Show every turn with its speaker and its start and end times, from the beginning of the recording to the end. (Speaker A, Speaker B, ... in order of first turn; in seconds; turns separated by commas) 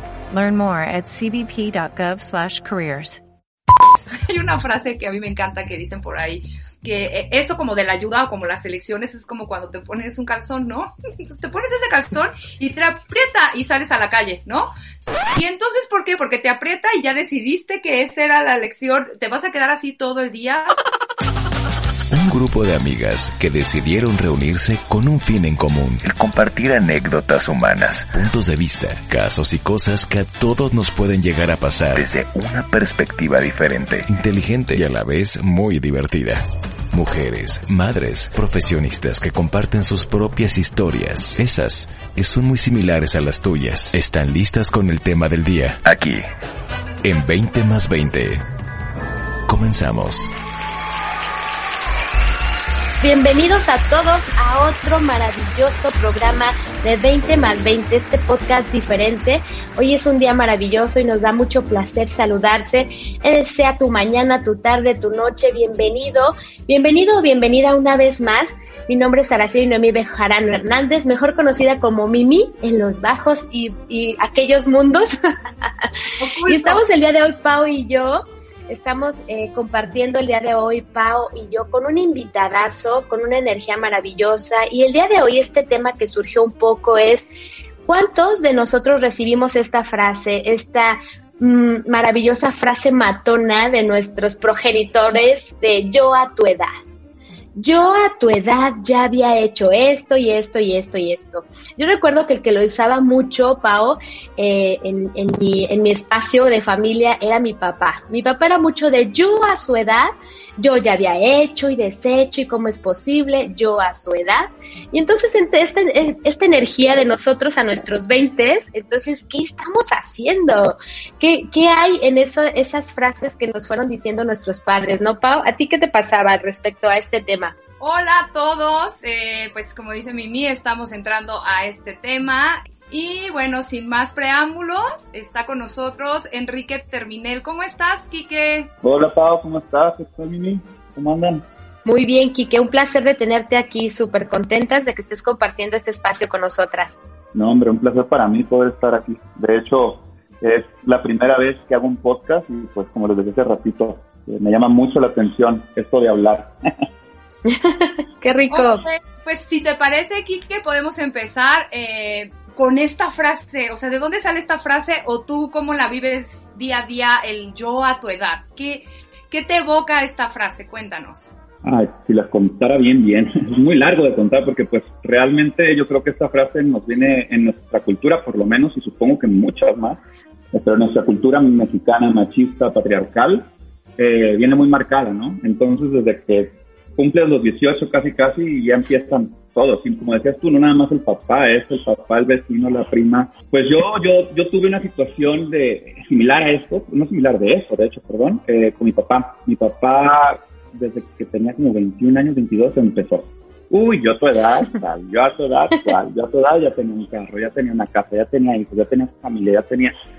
Speaker A: 0.3-3.2, Speaker B: 4.2-14.7, Speaker B: 15.3-20.8, Speaker C: 22.1-46.2, Speaker C: 47.0-48.4, Speaker C: 49.5-50.3, Speaker D: 53.0-75.9, Speaker B: 76.2-76.8, Speaker D: 76.5-87.3, Speaker D: 87.9-96.7, Speaker D: 97.6-127.5, Speaker B: 127.8-138.7, Speaker E: 138.8-141.5, Speaker D: 141.8-147.0, Speaker E: 147.3-156.6, Speaker D: 157.5-158.8, Speaker B: 158.5-171.3, Speaker E: 171.6-180.0, Speaker E: 180.5-209.9